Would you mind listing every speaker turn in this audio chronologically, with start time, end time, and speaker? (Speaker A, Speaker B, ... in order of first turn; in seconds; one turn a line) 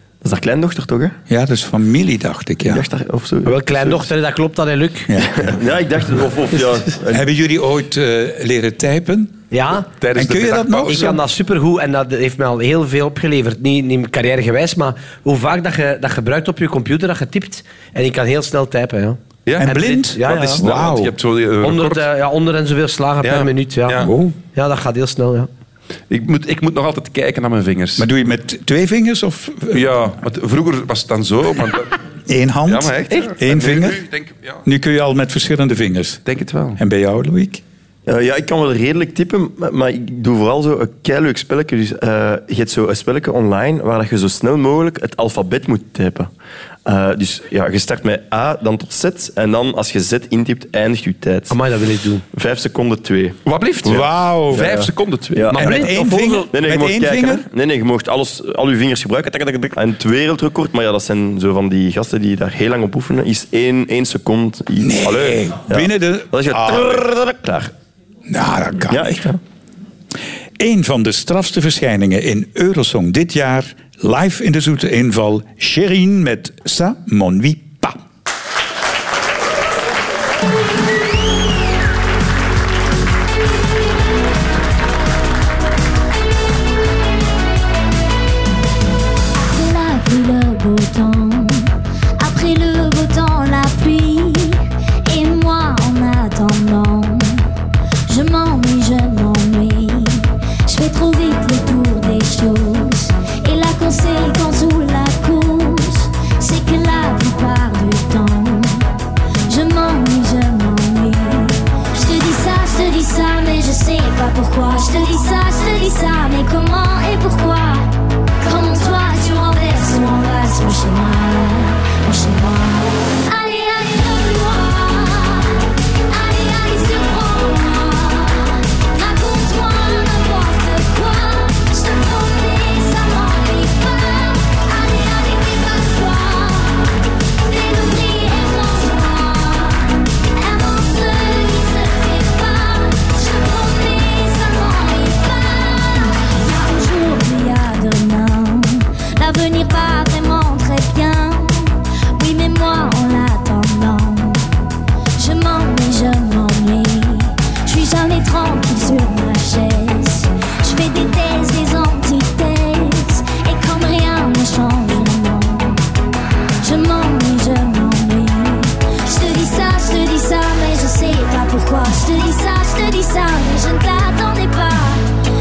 Speaker A: 0.2-1.2
Speaker B: 1.3-2.9
Speaker A: 2.6-4.1
Speaker C: 3.5-5.1
Speaker B: 5.1-5.5
Speaker A: 5.3-7.3
Speaker B: 7.1-9.3
Speaker C: 9.5-9.9
Speaker D: 10.0-11.2
Speaker B: 10.1-11.2
Speaker C: 10.9-20.6
Speaker D: 19.4-22.1
Speaker B: 19.6-21.1
Speaker C: 21.6-25.5
Speaker D: 23.2-24.1
Speaker B: 24.0-24.3
Speaker D: 26.1-28.1
Speaker B: 28.0-30.0
Speaker D: 29.7-32.0
Speaker B: 32.3-34.0
Speaker D: 32.6-34.6
Speaker B: 34.6-36.2
Speaker D: 36.2-36.8
Speaker B: 36.8-37.6
Speaker A: 38.0-46.3
Speaker A: 46.8-51.5
Speaker C: 51.5-52.2
Speaker A: 52.3-67.7
Speaker D: 53.5-55.7
Speaker B: 53.8-54.8
Speaker B: 55.5-57.5
Speaker C: 55.5-56.4
Speaker B: 64.8-67.0
Speaker B: 68.3-69.2
Speaker A: 68.9-69.4
Speaker B: 70.6-78.0
Speaker E: 89.4-97.5
Speaker E: 98.1-108.8
Speaker E: 109.5-117.9
Speaker E: 118.4-154.4
Speaker E: 155.2-165.8
Speaker E: 166.6-175.0